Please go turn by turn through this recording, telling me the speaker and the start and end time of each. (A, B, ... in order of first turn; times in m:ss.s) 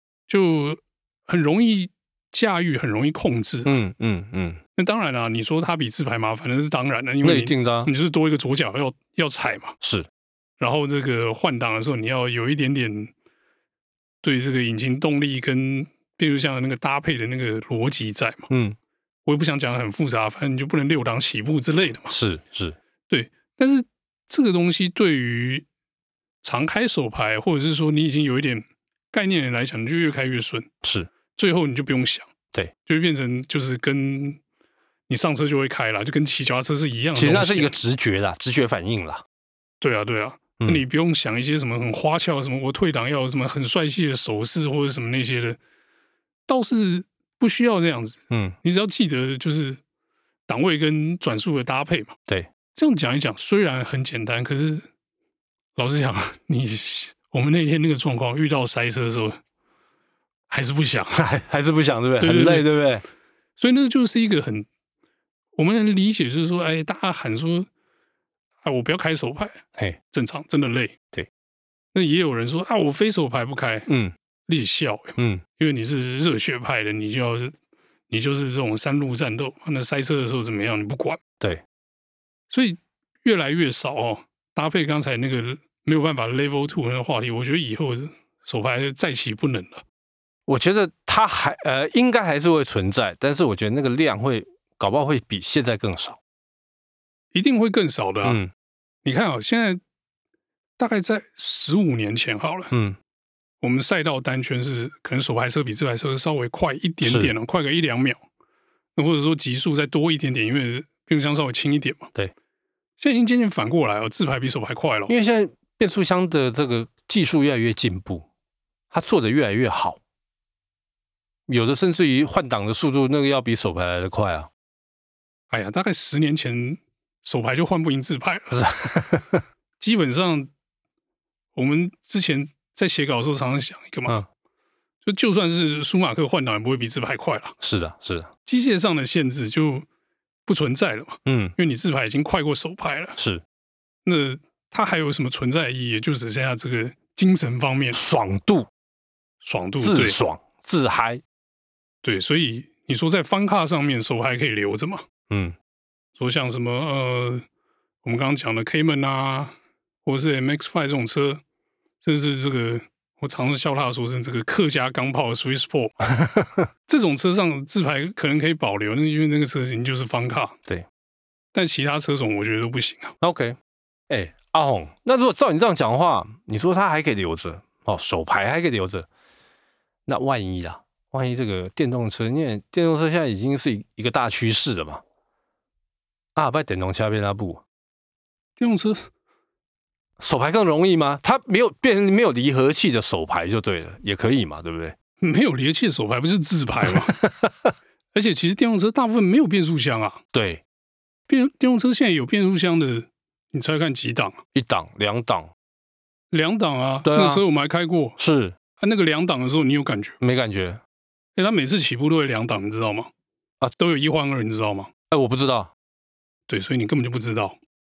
0:00.3-0:03.8 A
0:03.7-0:04.6 B
0:04.8-0:09.7 A
0:07.2-0:07.9 B
0:09.8-0:10.1 B
0:10.6-0:13.1 A
0:14.2-0:18.5 A
0:18.5-0:18.8 B
0:19.3-0:22.2 A
0:22.1-0:22.8 B
0:23.1-0:25.6 A
0:26.4-0:30.7 A
0:30.8-0:31.1 B
0:31.4-0:32.3 A
0:32.9-0:34.4 A
0:35.1-0:37.7 A
0:37.2-0:39.2 B
0:39.8-0:45.6 A
0:46.5-0:49.8 A
0:48.3-0:48.6 B
0:50.5-0:52.2 A
0:52.7-0:54.9 A
0:55.8-0:59.4 A
1:00.5-1:01.2 A
1:01.2-1:03.0 B
1:02.2-1:02.7 A
1:03.6-1:04.7 A
1:05.6-1:07.7 A
1:08.6-1:11.0 A
1:11.9-1:13.9 A
1:13.9-1:14.2 B
1:14.5-1:17.5 A
1:15.2-1:15.4 B
1:18.1-1:21.2 A
1:22.5-1:29.8 A
1:30.5-1:36.2 B
1:37.3-1:38.4 A
1:38.2-1:38.5 B
1:39.0-1:39.8 A
1:40.8-1:42.7 A
1:42.7-1:43.0 B
1:43.6-1:48.2 A
1:47.0-1:47.4 B
1:49.0-1:52.1 A
1:53.0-1:55.1 A
1:55.1-1:58.3 B
1:58.9-2:00.0 B
2:01.5-2:04.5 B
2:05.5-2:08.6 A
2:08.5-2:09.4 B
2:09.8-2:10.5 A
2:11.6-2:14.2 A
2:15.0-2:17.6 A
2:17.6-2:18.3 B
2:18.5-2:19.9 A
2:20.5-2:23.2 A
2:21.3-2:21.6 B
2:23.2-2:23.4 B
2:24.0-2:28.0 A
2:27.9-2:28.7 B
2:29.4-2:30.2 A
2:29.8-2:31.2 B
2:32.0-2:35.0 A
2:35.3-2:35.6 B
2:36.2-2:37.4 A
2:38.0-2:41.4 A
2:42.0-2:46.0 A
2:46.0-2:46.7 B
2:46.9-2:50.6 A
2:51.5-2:53.1 A
2:53.2-2:53.6 B
2:54.1-2:59.1 B
3:00.1-3:05.0 B
3:06.4-3:07.6 B
3:08.6-3:09.0 A
3:10.2-3:15.0 B
3:15.2-3:17.2 A
3:16.9-3:17.7 B
3:18.1-3:20.2 A
3:20.3-3:20.6 B
3:21.3-3:24.4 A
3:24.6-3:25.5 B
3:26.3-3:28.2 A
3:27.0-3:27.4 B
3:28.2-3:28.6 B
3:28.8-3:30.2 A
3:30.2-3:30.8 B
3:31.4-3:33.1 A
3:33.8-3:34.9 A
3:35.1-3:35.7 B
3:36.5-3:37.6 A